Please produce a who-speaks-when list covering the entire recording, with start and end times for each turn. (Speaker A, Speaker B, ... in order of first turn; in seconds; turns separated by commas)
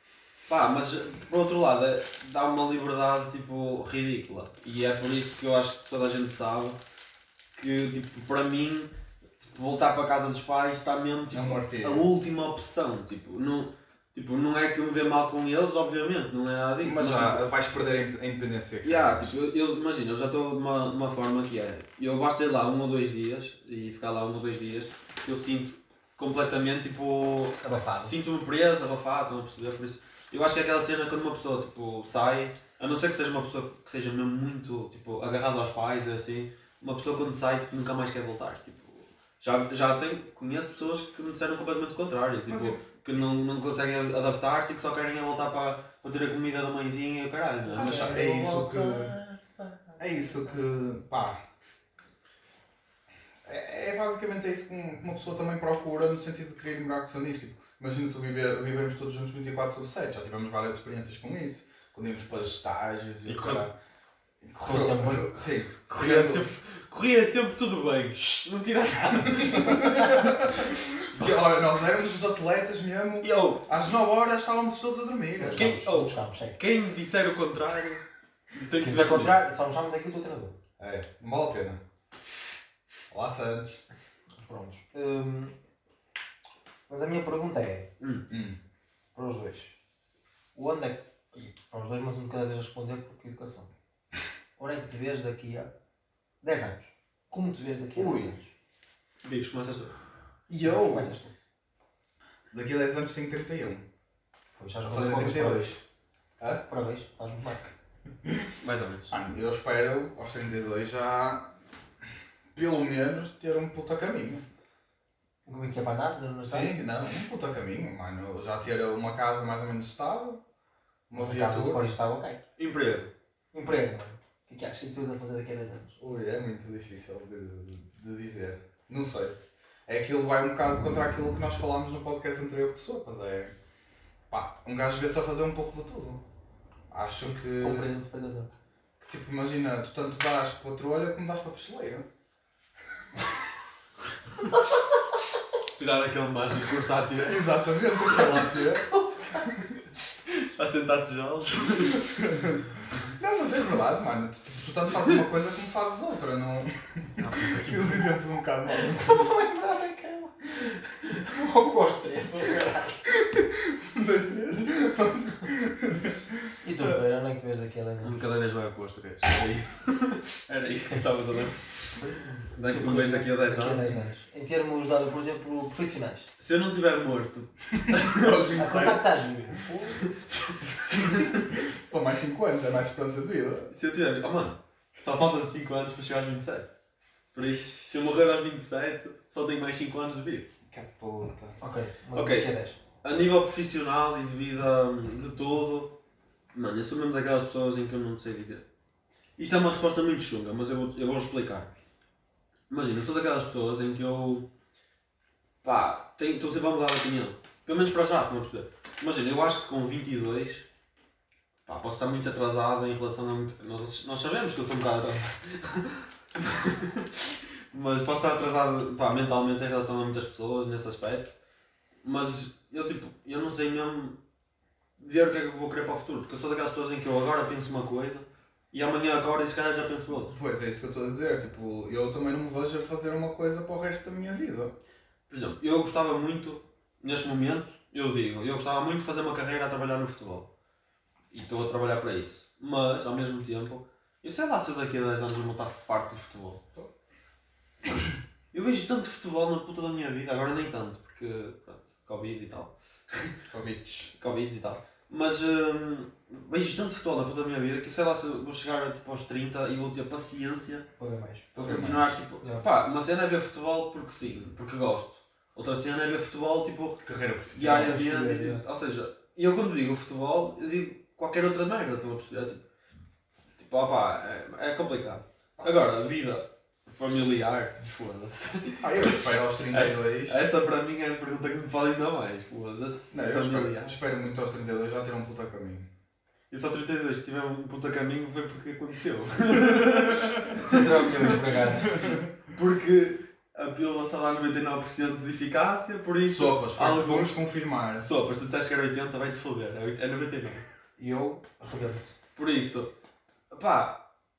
Speaker A: 0.5-6.8, Speaker A: 7.5-8.9, Speaker A: 9.4-17.4, Speaker B: 11.3-12.1, Speaker B: 16.8-19.5, Speaker A: 18.8-48.1, Speaker C: 27.6-28.1, Speaker B: 42.5-42.8, Speaker C: 47.7-50.6, Speaker B: 47.8-49.1, Speaker B: 50.0-51.4, Speaker B: 53.5-63.8, Speaker A: 63.3-63.6, Speaker B: 64.4-66.5, Speaker C: 64.6-65.3, Speaker A: 65.9-70.5, Speaker B: 69.3-75.7, Speaker A: 71.1-71.4, Speaker A: 73.2-73.7, Speaker C: 75.4-76.6, Speaker A: 75.5-78.0, Speaker A: 78.5-79.4, Speaker C: 78.8-80.6, Speaker B: 80.8-81.8, Speaker B: 83.1-83.8, Speaker C: 84.4-85.5, Speaker C: 86.9-87.9, Speaker B: 88.3-88.6, Speaker C: 89.2-89.7, Speaker C: 90.5-93.7, Speaker C: 94.6-95.7, Speaker C: 96.4-98.5, Speaker A: 98.0-98.3, Speaker A: 99.2-99.9, Speaker B: 100.5-101.1, Speaker C: 100.6-101.3, Speaker B: 102.5-103.8, Speaker C: 104.6-105.8, Speaker B: 104.9-105.8, Speaker C: 106.6-107.7, Speaker B: 108.2-108.5, Speaker A: 108.6-109.1, Speaker B: 109.1-111.5, Speaker B: 112.5-114.5, Speaker C: 115.5-116.7, Speaker B: 116.5-120.4, Speaker B: 121.1-121.8, Speaker C: 121.2-122.4, Speaker A: 122.6-123.1, Speaker C: 123.5-126.0, Speaker B: 126.0-129.4, Speaker B: 129.9-133.5, Speaker B: 134.3-136.2, Speaker B: 136.9-137.9, Speaker C: 137.4-138.5, Speaker B: 139.0-142.1, Speaker A: 145.8-148.6, Speaker B: 147.2-148.9, Speaker A: 150.3-152.1, Speaker B: 151.9-159.5, Speaker A: 157.2-158.0, Speaker C: 158.7-163.1, Speaker B: 163.1-166.6, Speaker C: 166.6-168.2, Speaker A: 168.0-174.0, Speaker C: 172.7-176.3, Speaker A: 176.4-178.6, Speaker B: 177.8-179.0, Speaker C: 178.5-180.2, Speaker A: 180.1-181.6, Speaker B: 181.4-183.7, Speaker A: 183.7-186.7, Speaker A: 187.3-190.5, Speaker B: 190.7-191.6, Speaker C: 191.6-192.8, Speaker A: 192.1-192.5, Speaker A: 193.0-195.9, Speaker A: 196.5-198.6, Speaker A: 199.4-201.7, Speaker A: 202.7-204.5, Speaker A: 205.6-210.7, Speaker A: 211.7-221.4, Speaker A: 222.0-224.2, Speaker A: 225.0-230.3, Speaker B: 230.3-234.7, Speaker A: 235.3-240.5, Speaker A: 241.3-246.6, Speaker A: 248.5-253.4, Speaker B: 253.5-254.1, Speaker A: 254.2-260.9, Speaker C: 261.0-261.5, Speaker B: 261.6-262.2, Speaker A: 261.6-272.6, Speaker B: 267.0-267.9, Speaker C: 267.6-268.6, Speaker A: 273.6-279.2, Speaker B: 278.8-280.4, Speaker A: 279.7-284.0, Speaker B: 283.1-285.9, Speaker A: 286.5-290.9, Speaker C: 290.5-292.2, Speaker B: 291.9-292.2, Speaker A: 292.5-297.4, Speaker B: 296.3-298.1, Speaker A: 298.0-300.6, Speaker C: 301.0-302.1, Speaker A: 302.4-302.9, Speaker A: 303.5-304.0